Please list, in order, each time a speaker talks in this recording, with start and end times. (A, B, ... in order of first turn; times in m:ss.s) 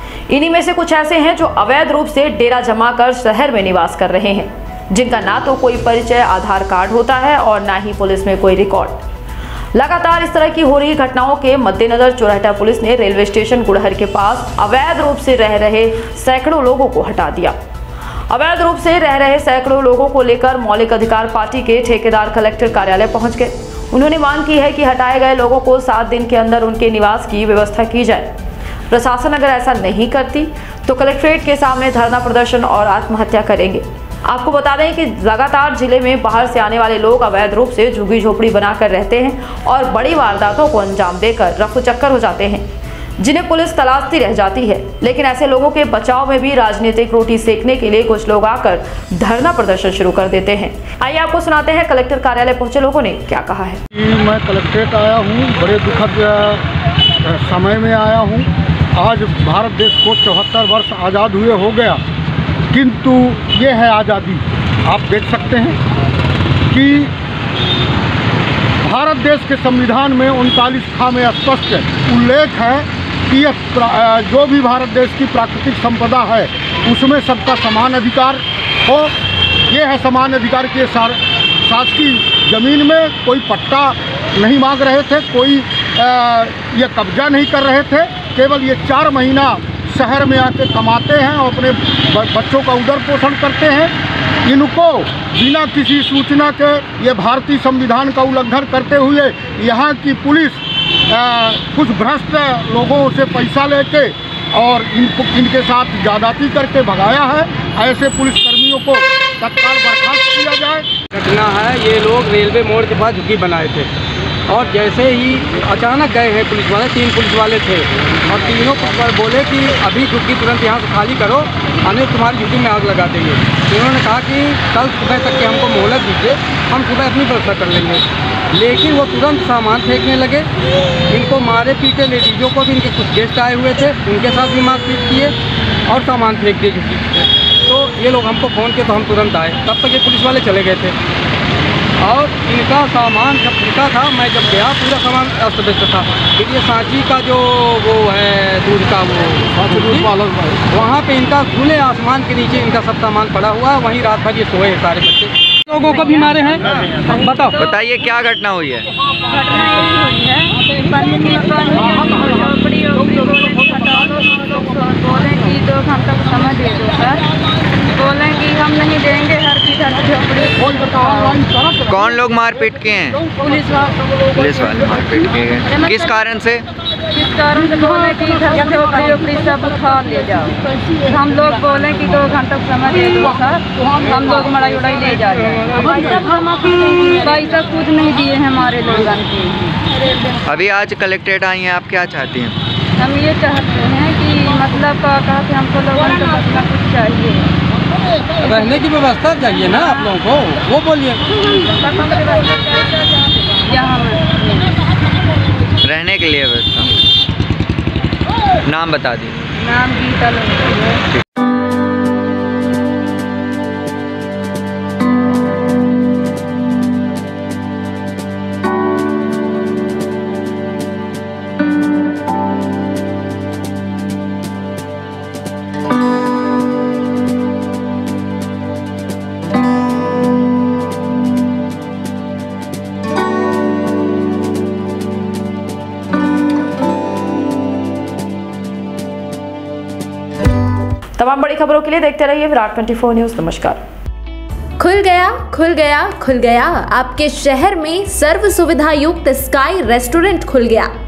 0:00.3-0:09.0 A
0:09.7-0:17.6 A
0:18.3-0:28.3 A
0:28.9-0:42.6 A
0:43.2-0:53.8 A
0:53.9-0:56.6 B
0:57.2-1:02.0 B
1:02.7-1:05.8 B
1:06.7-1:07.1 B
1:08.8-1:19.1 B
1:19.7-1:33.9 B
1:34.4-1:50.9 B
1:51.1-1:53.9 C
1:54.5-2:10.5 C
2:11.1-2:15.3 C
2:15.9-2:20.9 C
2:22.0-2:30.1 C
2:29.7-2:30.6 B
2:30.7-2:37.6 C
2:37.5-2:38.9 D
2:39.2-2:47.2 E
2:47.8-2:51.4 E
2:51.9-2:53.3 D
2:54.3-2:56.6 D
2:57.1-3:09.8 E
3:10.4-3:12.6 D
3:13.0-3:17.5 E
3:18.4-3:21.4 C
3:21.7-3:22.8 E
3:23.6-3:24.8 E
3:25.8-3:26.9 D
3:28.6-3:29.4 D
3:29.6-3:31.0 E
4:01.2-4:03.8 A
4:04.8-4:10.9 F